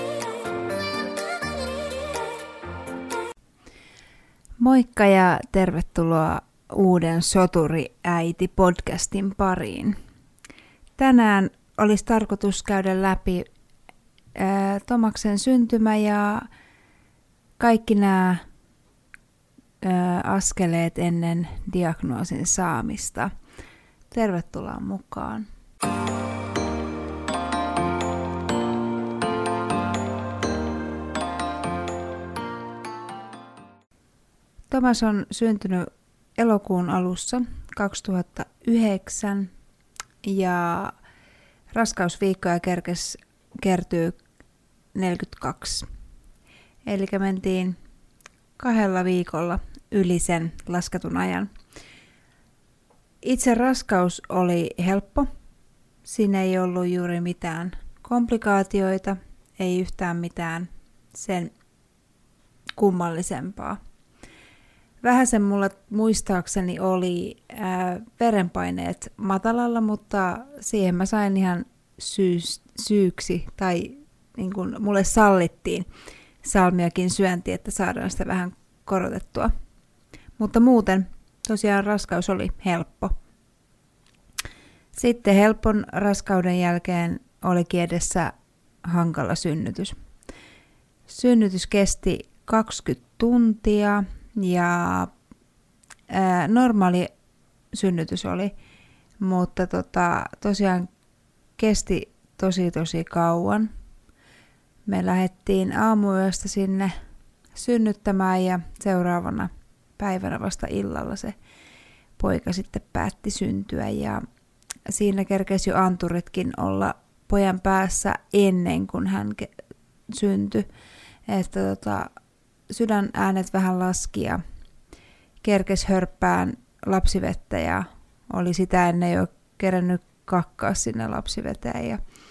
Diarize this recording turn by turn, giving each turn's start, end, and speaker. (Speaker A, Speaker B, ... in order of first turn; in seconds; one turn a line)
Speaker A: 4.6-10.0
Speaker A: 11.0-13.5
Speaker A: 14.3-16.5
Speaker A: 17.6-18.4
Speaker A: 19.8-23.3
Speaker A: 24.1-25.5
Speaker A: 34.7-39.5
Speaker A: 40.2-40.9
Speaker A: 41.7-44.2
Speaker A: 45.0-45.9
Speaker A: 46.9-47.8
Speaker A: 48.6-51.5
Speaker A: 53.2-55.3
Speaker A: 56.1-61.5
Speaker A: 62.8-63.8
Speaker A: 65.0-75.9
Speaker A: 76.4-79.5
Speaker A: 80.4-83.1
Speaker A: 85.0-88.3
Speaker A: 88.8-90.0
Speaker A: 91.1-95.1
Speaker A: 96.1-97.1
Speaker A: 97.7-98.5
Speaker A: 99.2-100.9
Speaker A: 101.6-103.7
Speaker A: 104.9-106.9
Speaker A: 107.5-111.3
Speaker A: 112.2-114.2
Speaker A: 114.9-119.5
Speaker A: 120.1-120.7
Speaker A: 121.3-122.1
Speaker A: 122.7-124.4
Speaker A: 125.4-132.0